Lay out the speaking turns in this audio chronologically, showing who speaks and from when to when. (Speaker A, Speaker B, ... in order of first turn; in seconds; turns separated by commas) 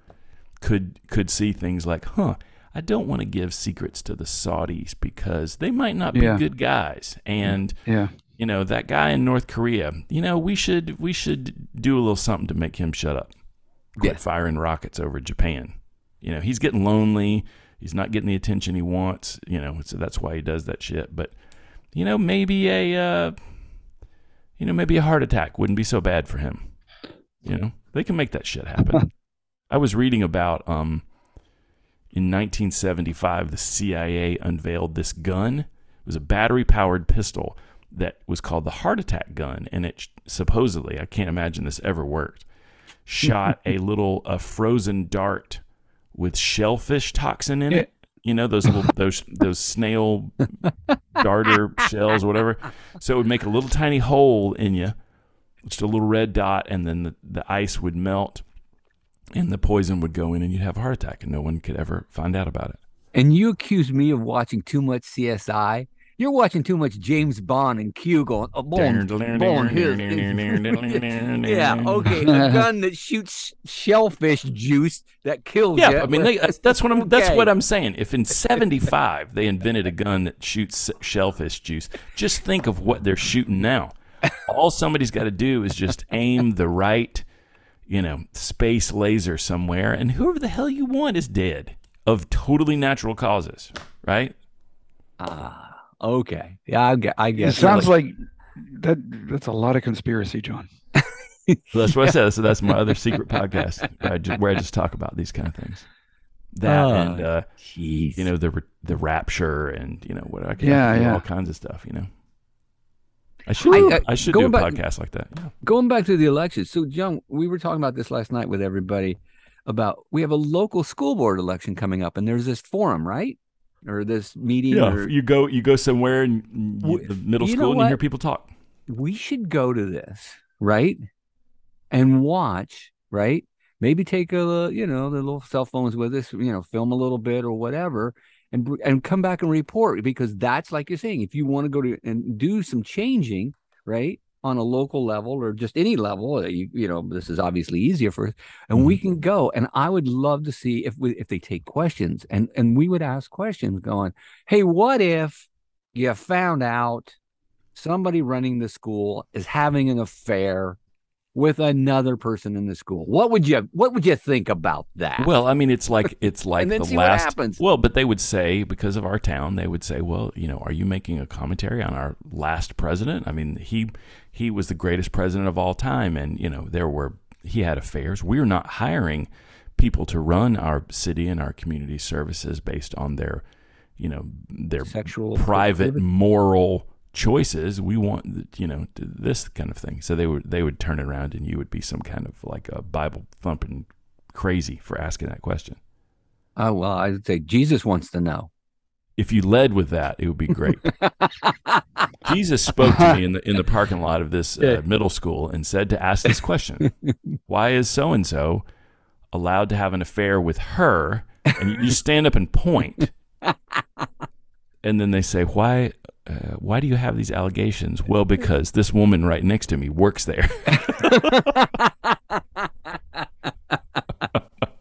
Speaker A: 0.6-7.8, Speaker B: 6.1-6.4, Speaker B: 7.8-8.1, Speaker A: 8.4-13.3, Speaker A: 13.9-21.3, Speaker A: 21.9-23.3, Speaker A: 24.6-26.6, Speaker A: 27.4-29.1, Speaker A: 29.7-31.0, Speaker A: 32.1-42.5, Speaker A: 43.0-45.6, Speaker A: 46.1-54.9, Speaker A: 55.6-58.4, Speaker A: 59.3-62.8, Speaker C: 63.1-77.5, Speaker A: 68.7-72.2, Speaker B: 72.3-72.6, Speaker A: 75.8-87.2, Speaker A: 87.9-94.3, Speaker C: 95.2-97.9, Speaker B: 97.4-100.7, Speaker C: 101.0-102.2, Speaker A: 101.7-105.8, Speaker A: 106.5-107.5, Speaker C: 106.6-108.3, Speaker A: 108.2-112.1, Speaker B: 110.6-111.2, Speaker A: 113.5-115.5, Speaker C: 113.6-114.8, Speaker C: 115.6-125.1, Speaker A: 124.7-128.5, Speaker C: 126.8-128.0, Speaker C: 128.9-131.0, Speaker C: 131.9-157.2, Speaker C: 157.7-160.8, Speaker C: 161.3-165.3, Speaker A: 165.2-183.4, Speaker C: 166.6-167.6, Speaker A: 184.0-195.8, Speaker C: 184.8-186.0, Speaker C: 196.6-198.5, Speaker A: 199.2-200.9, Speaker C: 200.8-202.1, Speaker A: 202.2-206.9, Speaker B: 202.8-203.2, Speaker A: 207.5-208.6, Speaker A: 209.3-213.1, Speaker C: 213.4-214.0, Speaker A: 214.8-221.5, Speaker C: 220.7-224.3